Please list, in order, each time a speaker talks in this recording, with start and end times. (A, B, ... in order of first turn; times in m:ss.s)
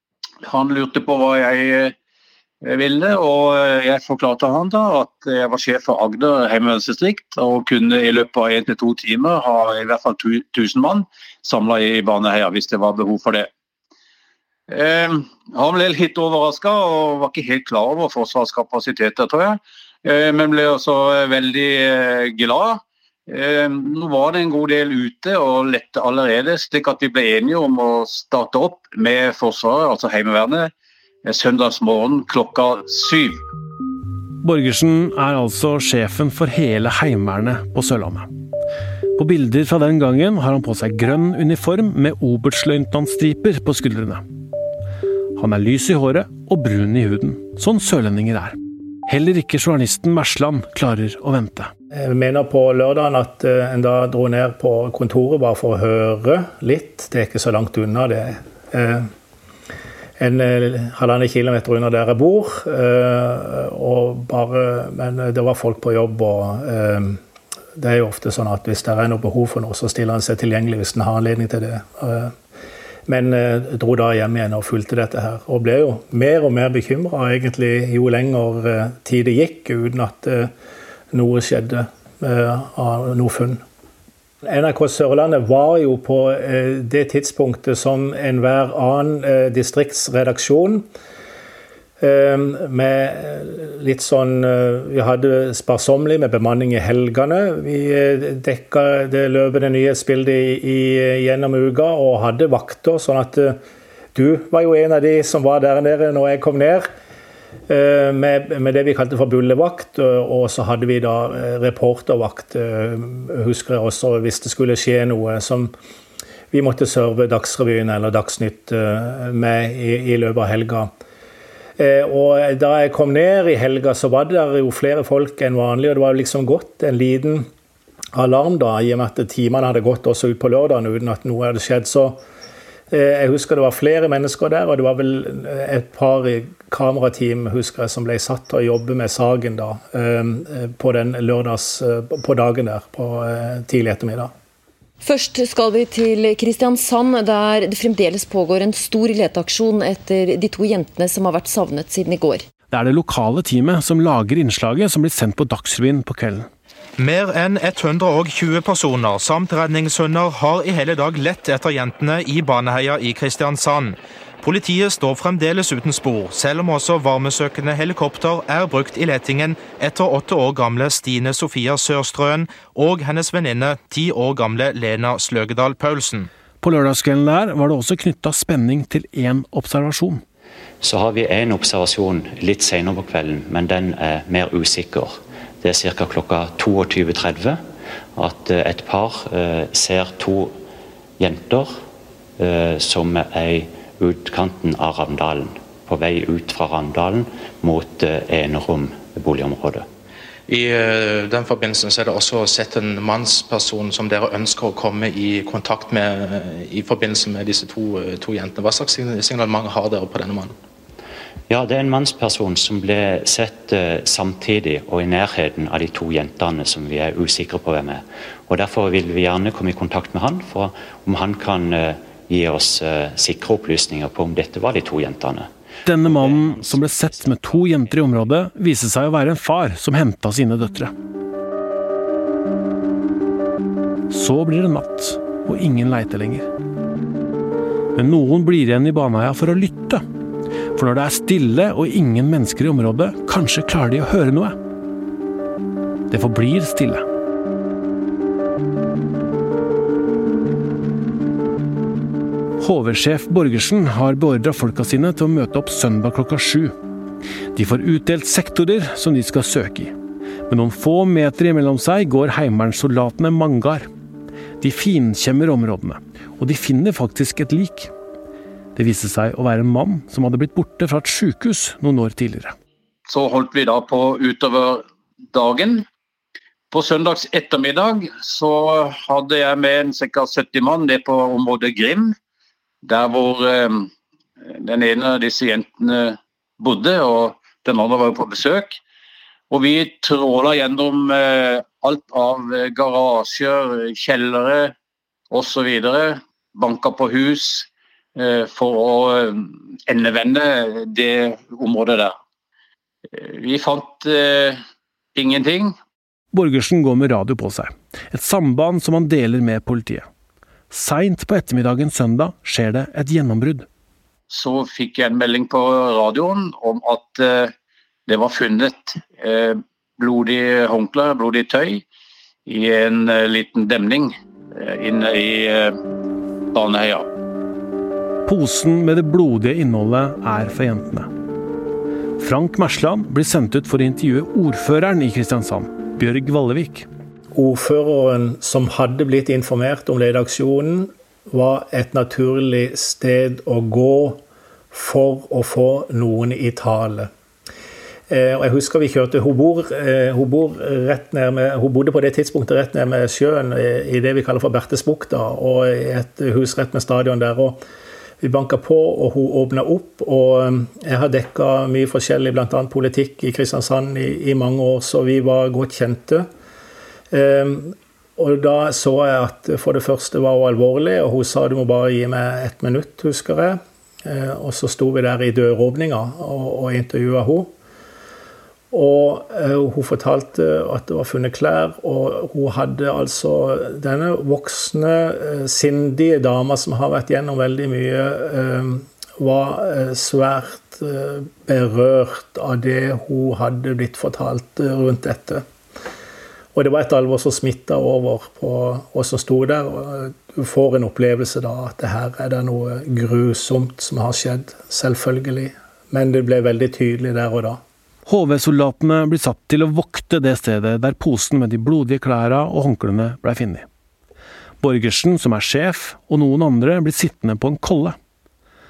0:00.4-0:01.9 A
0:02.6-0:13.5 A
0:14.7-0:30.7 A
0:31.2-0:33.4 A
0:34.4-0:38.3 B
0:39.2-0:44.2 B
0:45.4-0:51.7 B
0:52.0-0:59.1 C
1:00.2-1:07.2 C
1:07.8-1:12.3 C
1:13.1-1:20.5 C
1:21.1-1:23.6 C
1:24.4-1:30.8 C
1:32.0-1:43.6 C
1:44.1-1:46.9 C
1:47.7-1:55.7 C
1:56.5-2:00.9 C
2:01.8-2:07.5 C
2:08.1-2:12.2 C
2:12.9-2:24.3 C
2:25.0-2:32.4 D
2:32.7-2:36.5 B
2:37.0-2:56.3 E
2:56.6-3:00.2 B
3:00.8-3:07.6 F
3:08.2-3:10.6 F
3:11.2-3:11.8 F
3:12.4-3:19.9 F
3:20.5-3:30.5 G
3:31.5-3:48.2 F
3:45.8-3:50.9 B
3:54.1-3:56.5 B
3:58.0-4:00.0 B
4:00.7-4:04.6 B
4:06.1-4:07.0 B
4:12.6-4:16.7 B
4:17.5-4:19.9 B
4:20.5-4:23.9 B
4:24.6-4:27.9 B
4:28.8-4:32.5 B
4:33.1-4:35.8 A
4:36.7-4:42.1 A
4:42.8-4:43.9 A
4:44.4-4:48.8 A
4:49.5-4:54.7 A
4:55.3-5:02.1 A
5:03.1-5:04.6 A
5:05.2-5:05.7 A
5:06.3-5:10.0 B
5:10.7-5:13.6 B
5:14.3-5:17.5 A
5:18.1-5:21.8 A
5:22.4-5:25.8 A
5:26.5-5:27.0 A
5:28.2-5:31.1 B
5:32.2-5:36.9 B
5:37.3-5:47.1 C
5:48.1-5:57.6 C
5:58.2-6:06.2 C
6:07.1-6:17.5 C
6:18.7-6:35.4 C
6:36.5-6:47.6 C
6:48.1-6:53.6 B
6:54.6-6:58.0 B